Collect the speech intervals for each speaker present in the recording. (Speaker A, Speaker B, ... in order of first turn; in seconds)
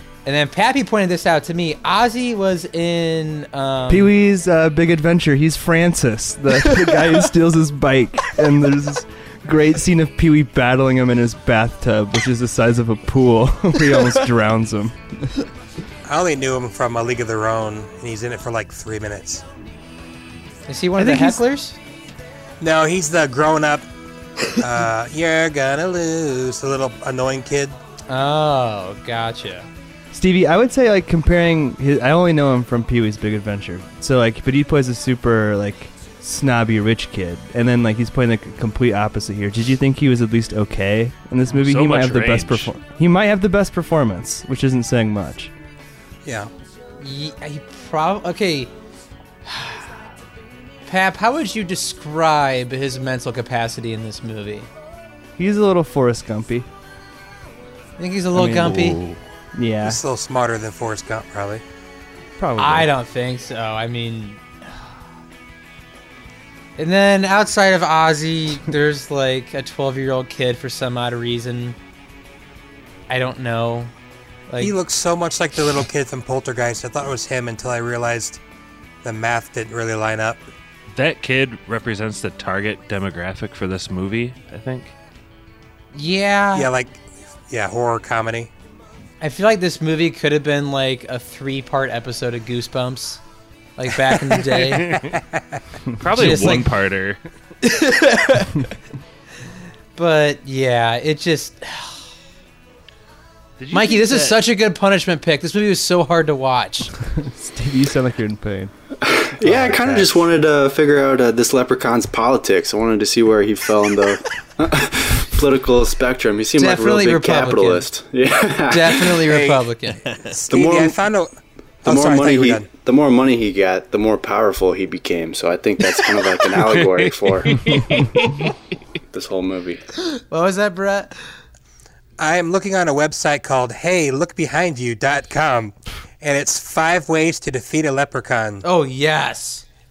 Speaker A: 0.2-4.1, 20.7-21.8, 28.1-29.7, 47.0-48.7, 49.5-50.0, 50.8-54.7, 58.0-59.0, 62.6-64.4, 66.8-71.8, 73.1-73.9, 74.5-74.8, 85.9-86.7, 89.2-93.2, 93.8-95.0, 96.2-96.7, 97.6-98.6, 100.0-102.1, 103.7-106.9, 116.6-117.9, 118.7-120.0, 130.2-131.1, 138.6-139.6
Speaker B: 3.9-15.3, 21.0-21.4, 30.1-45.5, 55.4-56.7, 58.3-60.0, 62.4-62.9, 95.9-96.6, 107.0-108.7
Speaker C: 16.1-19.4, 22.6-23.9, 24.5-27.8, 46.2-46.5, 59.8-61.6, 74.6-78.4, 79.0-80.4, 86.5-88.5, 94.9-95.6, 109.4-110.1, 119.3-119.6, 120.2-122.7, 132.2-138.6
Speaker D: 41.5-42.7, 80.9-84.9, 94.7-95.1, 96.0-97.2, 103.6-104.4, 126.6-128.5
Speaker E: 109.0-119.2, 120.5-121.0, 121.8-127.7, 129.1-129.8